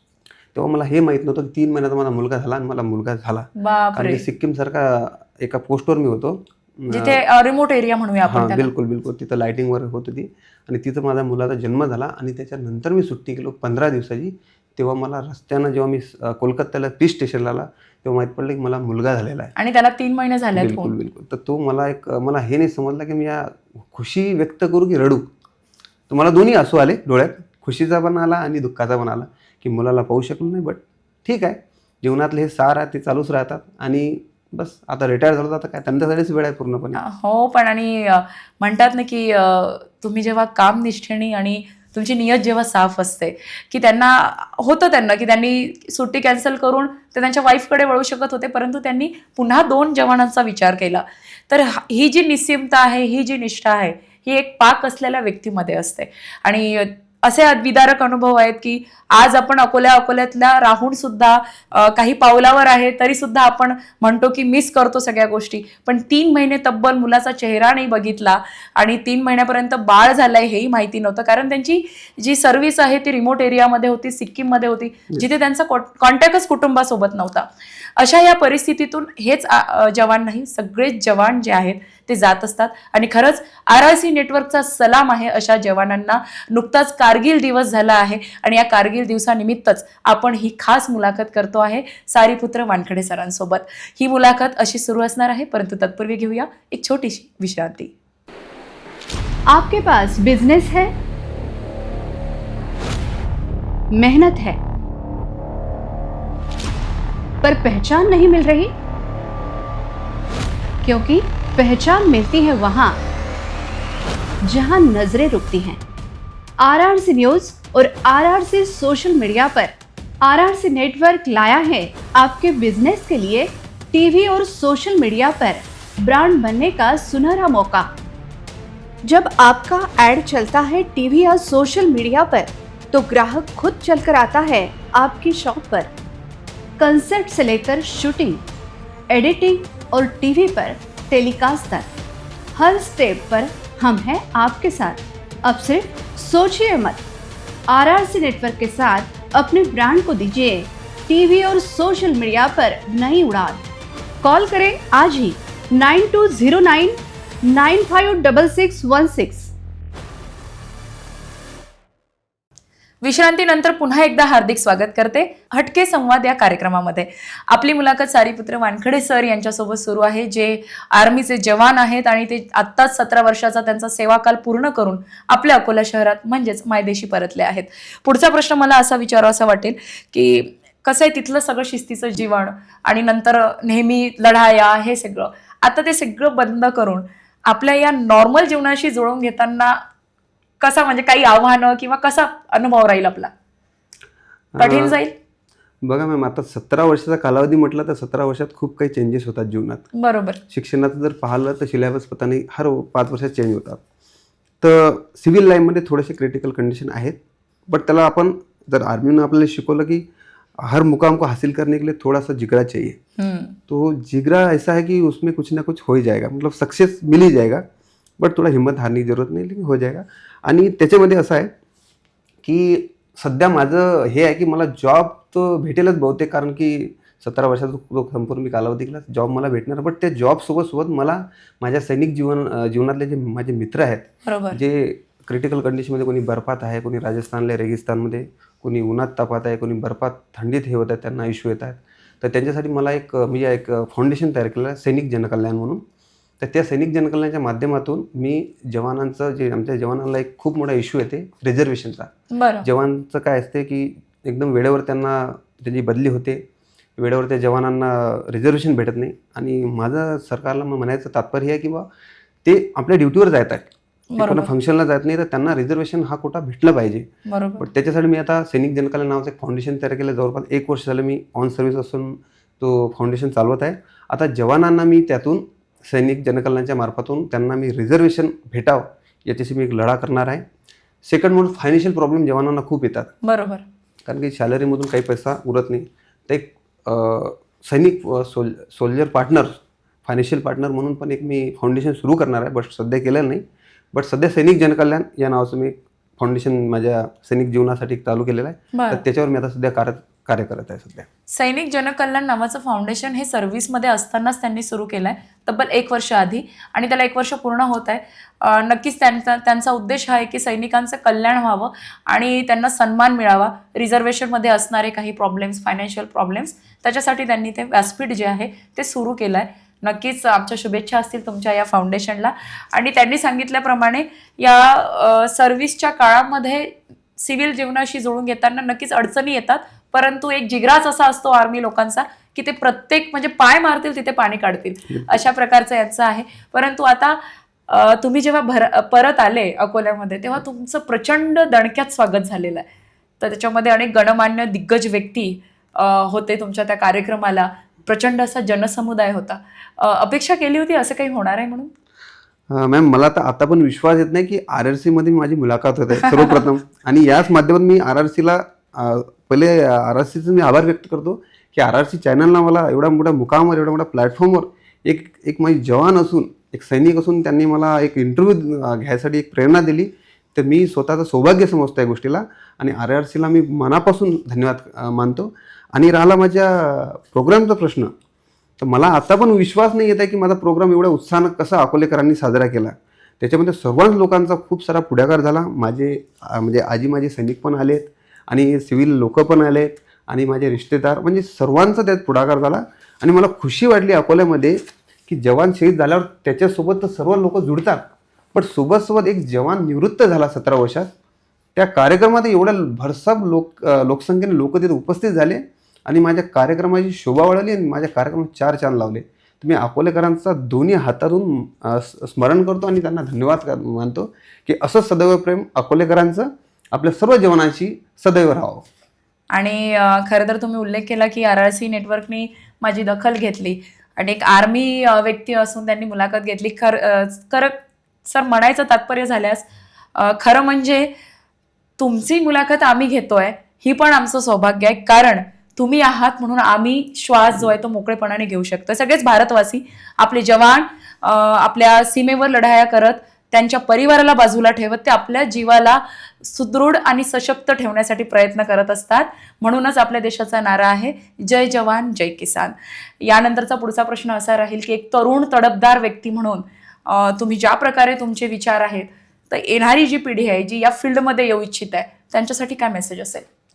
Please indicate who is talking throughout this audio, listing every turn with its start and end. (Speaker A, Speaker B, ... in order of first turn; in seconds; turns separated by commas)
Speaker A: 0.5-7.2, Speaker B: 3.6-4.2, Speaker B: 6.9-8.7, Speaker A: 8.3-19.5, Speaker B: 19.6-20.9, Speaker A: 20.6-25.3, Speaker A: 26.1-37.0, Speaker B: 37.0-97.9, Speaker C: 99.5-100.9, Speaker C: 104.0-104.6, Speaker C: 107.5-108.7, Speaker C: 110.9-113.0, Speaker C: 114.5-115.8, Speaker C: 116.7-119.7, Speaker C: 120.3-127.9, Speaker C: 129.1-135.9, Speaker C: 136.9-138.4, Speaker C: 139.2-141.9, Speaker C: 142.7-147.0, Speaker C: 147.8-153.6, Speaker C: 154.3-157.0, Speaker C: 157.5-159.5, Speaker B: 163.0-189.8, Speaker B: 190.6-193.3, Speaker A: 194.5-195.0, Speaker B: 194.6-195.2, Speaker A: 195.8-199.9, Speaker B: 199.9-200.4, Speaker A: 200.5-203.8, Speaker A: 204.6-210.1, Speaker A: 210.6-213.0, Speaker B: 213.2-213.6, Speaker A: 213.7-217.6, Speaker A: 218.2-221.5, Speaker A: 222.4-245.8, Speaker B: 234.2-234.6, Speaker A: 246.4-252.1, Speaker B: 252.3-252.7, Speaker A: 252.6-256.4, Speaker A: 257.0-261.9, Speaker A: 262.4-267.1, Speaker B: 264.1-264.5, Speaker B: 267.3-267.7, Speaker A: 267.6-280.4, Speaker A: 281.1-283.1, Speaker B: 283.2-283.6, Speaker A: 284.1-301.1, Speaker B: 298.7-299.0, Speaker B: 301.3-342.6, Speaker A: 334.9-335.2, Speaker B: 343.2-351.7, Speaker A: 352.5-377.9, Speaker B: 356.1-356.4, Speaker A: 378.6-400.9, Speaker A: 401.6-418.6, Speaker B: 419.3-430.9, Speaker B: 431.8-463.3